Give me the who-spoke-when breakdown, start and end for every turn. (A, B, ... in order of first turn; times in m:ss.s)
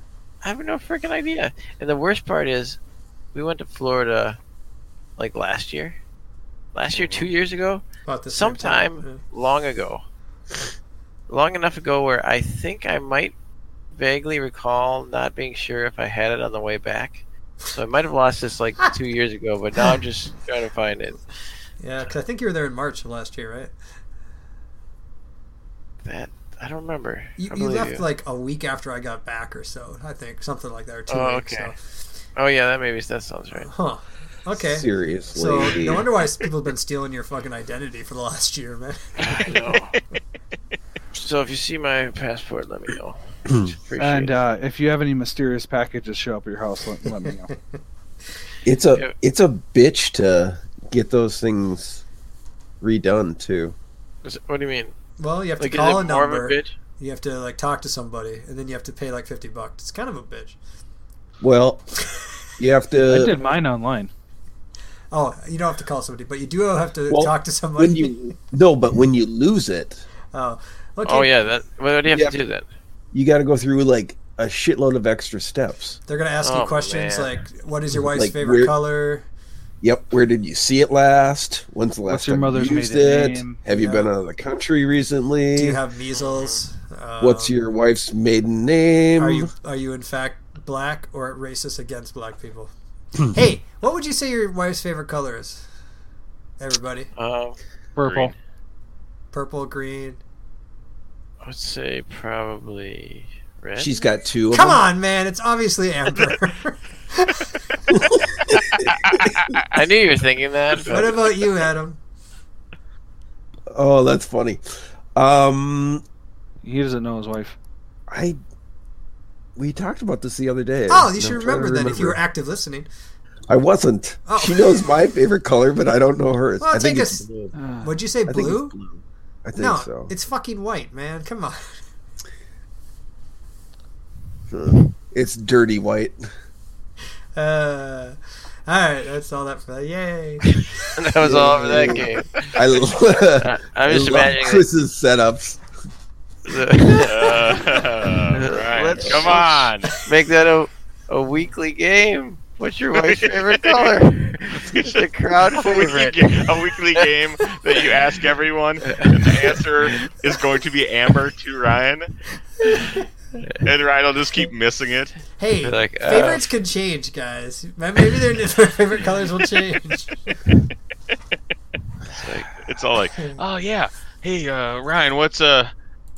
0:00.4-0:02.8 A
0:03.3-0:04.4 A
0:05.2-0:06.0 A
0:06.7-0:10.0 A
0:06.9-0:07.3 B
0:08.1-0:09.2 C
0:11.3-0:13.4 A
0:14.0-0:21.2 A
0:21.8-0:23.7 C
0:26.0-0:28.0 A
0:27.4-0:31.8 C
0:31.1-0:31.7 A
0:32.4-0:33.7 A
0:33.6-0:39.6 C
0:34.6-0:36.1 D
0:39.2-0:40.0 A
0:41.1-0:44.4 A
0:44.0-0:47.5 E
0:47.2-0:47.5 C
0:48.6-0:52.0 D
0:52.8-0:53.8 D
0:54.2-0:55.0 A
0:55.2-1:00.6 C
0:55.6-0:56.8 A
1:01.4-1:01.9 D
1:02.6-1:03.4 D
1:03.1-1:04.1 E
1:05.1-1:08.3 C
1:07.1-1:10.0 D
1:10.3-1:11.3 C
1:11.1-1:12.6 A
1:12.1-1:12.4 D
1:13.1-1:16.0 D
1:16.1-1:19.3 C
1:16.4-1:17.4 A
1:18.1-1:18.7 D
1:19.8-1:25.8 D
1:22.1-1:23.6 E
1:23.7-1:24.1 C
1:25.6-1:27.6 C
1:26.1-1:26.6 A
1:27.2-1:29.5 D
1:29.2-1:32.7 C
1:33.3-1:35.6 C
1:36.6-1:37.1 C
1:37.2-1:37.6 A
1:38.0-1:38.3 E
1:38.0-1:38.3 B
1:39.3-1:40.2 C
1:41.4-1:44.0 A
1:43.8-1:44.8 D
1:44.5-1:47.8 C
1:47.9-1:48.9 D
1:49.0-1:49.6 B
1:49.7-1:51.3 A
1:50.9-1:52.0 C
1:53.7-1:54.6 D
1:55.2-1:56.0 D
1:56.6-1:57.6 E
1:58.1-1:58.4 D
1:59.6-2:02.2 D
2:00.9-2:02.9 C
2:03.5-2:07.5 D
2:04.3-2:04.9 C
2:06.6-2:07.3 C
2:07.5-2:08.0 E
2:07.8-2:08.8 C
2:08.3-2:10.1 D
2:09.6-2:11.8 C
2:14.5-2:16.3 D
2:17.4-2:20.9 C
2:20.5-2:22.5 A
2:21.2-2:25.6 D
2:23.2-2:24.6 A
2:26.5-2:37.1 A
2:27.0-2:29.9 B
2:33.0-2:33.9 B
2:34.6-2:35.0 B
2:35.5-2:42.1 B
2:38.8-2:39.6 A
2:42.6-2:43.0 C
2:43.6-2:45.2 B
2:45.4-2:50.4 C
2:45.6-2:46.5 A
2:52.1-2:52.5 A
2:52.5-2:55.7 B